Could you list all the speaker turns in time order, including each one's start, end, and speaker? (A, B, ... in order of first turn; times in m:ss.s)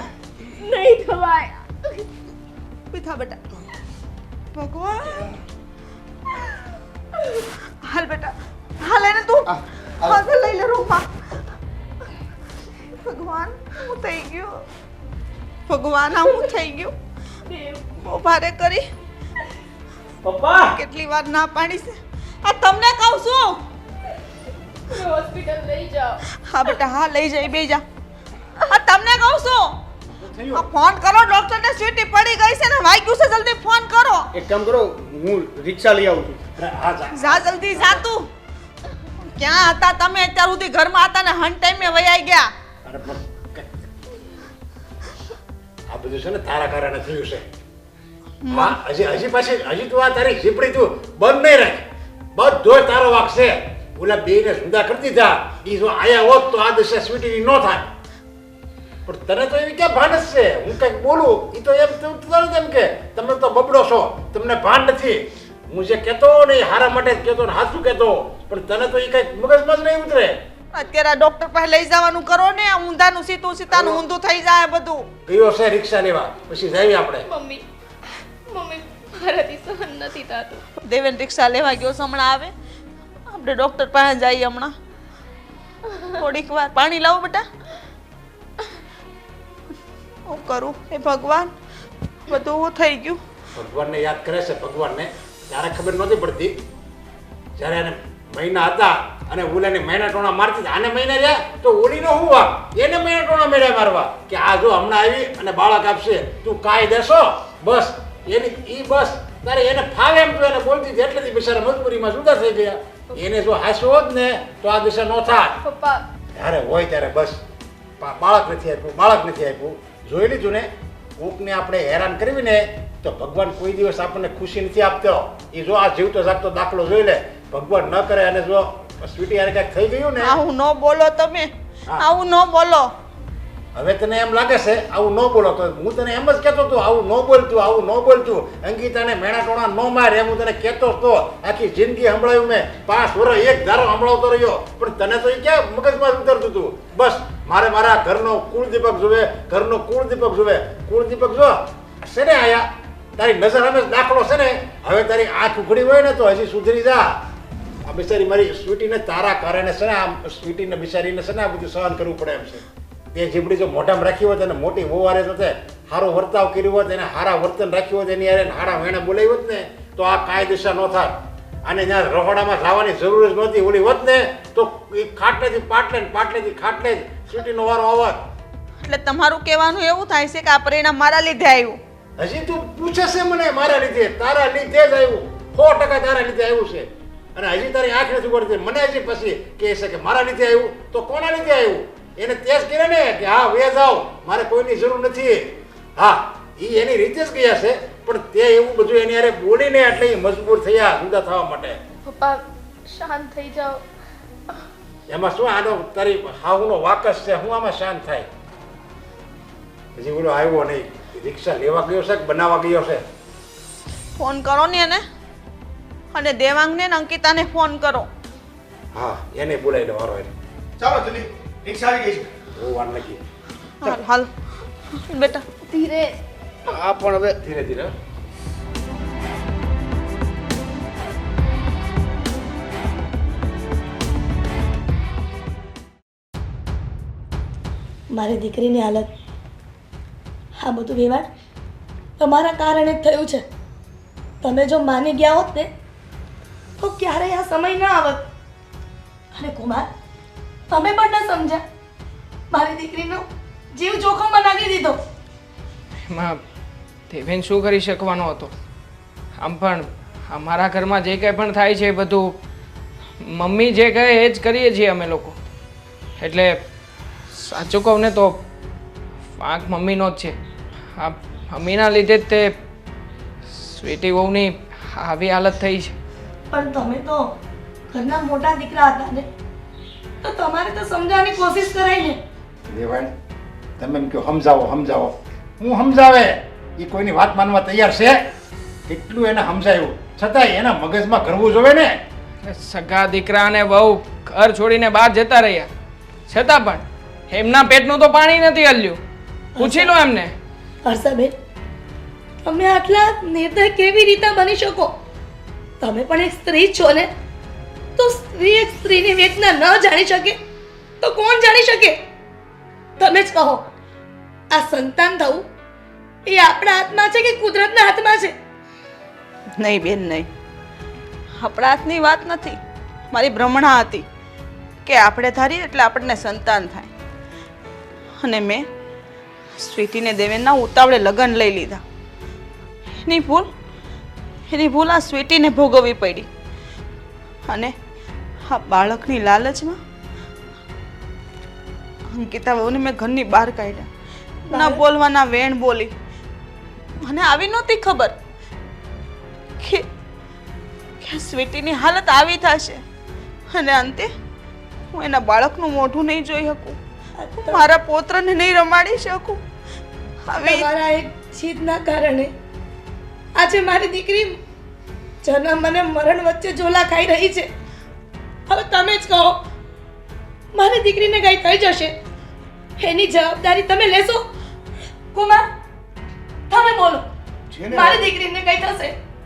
0:00.6-0:01.7 A
0:02.9-0:03.4 B
0:04.5-0:05.3 B
0:07.8-0:09.5 B
0:09.5-0:10.2 C
0:10.0-0:11.1 B
0:13.0-0:14.6 B
0:15.7-0:16.9 B
0:17.5-0:17.8 A
0:18.0-0:18.9 B
0:20.2-0:20.7 C
0:20.7-0:23.6 B
0:24.9-0:26.2 A
0:26.4-0:27.8 B
0:28.6-0:29.8 B
0:30.2-0:30.7 D
0:30.5-0:34.3 B
0:34.3-0:36.4 C
0:36.6-0:38.0 D
0:37.2-0:38.3 B
0:39.4-0:42.5 B
0:42.8-0:43.8 D
0:45.9-0:47.4 D
0:48.4-0:48.8 B
0:48.5-0:57.9 D
0:59.1-1:10.4 D
1:10.7-1:15.1 B
1:13.7-1:14.0 D
1:15.3-1:17.3 D
1:17.3-1:17.6 A
1:18.5-1:20.6 A
1:20.8-1:22.5 B
1:23.3-1:24.8 B
1:26.1-1:27.5 B
1:30.3-1:31.5 B
1:32.3-1:33.2 B
1:33.6-1:36.6 D
1:37.6-1:55.6 D
1:55.6-1:56.0 A
1:56.4-1:57.4 D
1:58.0-2:10.4 D
2:10.2-2:12.9 B
2:13.8-2:37.1 D
2:37.8-2:58.2 D
2:58.8-3:01.8 B
3:02.2-3:21.8 D
3:22.0-3:23.8 A
3:25.1-3:28.3 D
3:30.0-3:33.0 D
3:34.2-3:35.0 B
3:36.1-3:38.1 B
3:38.9-3:40.3 D
3:40.8-3:42.3 C
3:42.6-3:43.2 D
3:43.8-3:44.3 B
3:44.9-3:45.5 B
3:45.6-3:46.2 A
3:46.7-3:47.4 C
3:47.4-3:47.9 D
3:58.1-3:59.1 E
4:00.6-4:01.3 E
4:02.2-4:03.5 E
4:04.4-4:05.7 E
4:06.8-4:08.3 E
4:09.3-4:09.9 E
4:10.7-4:11.6 E
4:12.5-4:15.0 E
4:16.1-4:16.4 F
4:17.1-4:18.5 F
4:19.4-4:22.4 F
4:23.2-4:25.4 F
4:26.2-4:26.6 F
4:27.3-4:28.4 F
4:29.4-4:30.4 F
4:30.9-4:32.5 F
4:33.5-4:35.9 F
4:36.5-4:37.4 E
4:37.9-4:39.3 E
4:40.2-4:42.2 E
4:42.7-4:43.1 D
4:43.8-4:48.2 D
4:48.9-4:52.0 D
4:52.4-4:55.7 F
4:56.3-4:59.0 F
4:59.5-5:00.0 E
4:59.6-5:00.3 F
5:00.8-5:01.4 E
5:02.4-5:05.0 E
5:05.8-5:07.1 E
5:08.0-5:10.4 E
5:11.0-5:12.0 E
5:13.0-5:13.7 E
5:14.5-5:15.5 E
5:16.3-5:18.4 E
5:19.6-5:20.3 B
5:21.4-5:22.6 B
5:23.1-5:24.1 B
5:24.8-5:26.9 B
5:28.2-5:28.7 B
5:29.6-5:31.8 B
5:33.0-5:33.5 B
5:34.5-5:36.3 B
5:37.5-5:37.8 B
5:38.5-5:39.8 B
5:42.1-5:43.9 B
5:44.5-5:44.8 E
5:44.5-5:45.9 B
5:47.0-5:48.2 B
5:49.6-5:49.9 B
5:51.0-5:52.8 B
5:53.5-5:54.1 B
5:54.9-5:56.8 B
5:57.2-5:57.7 E
5:57.4-5:59.4 B
6:00.3-6:00.7 B
6:00.4-6:02.3 E
6:03.4-6:04.4 E
6:05.2-6:07.5 E
6:08.5-6:09.4 E
6:10.5-6:12.0 E
6:12.8-6:14.3 E
6:15.1-6:15.5 E
6:16.5-6:17.1 E
6:17.5-6:18.1 C
6:17.7-6:19.0 E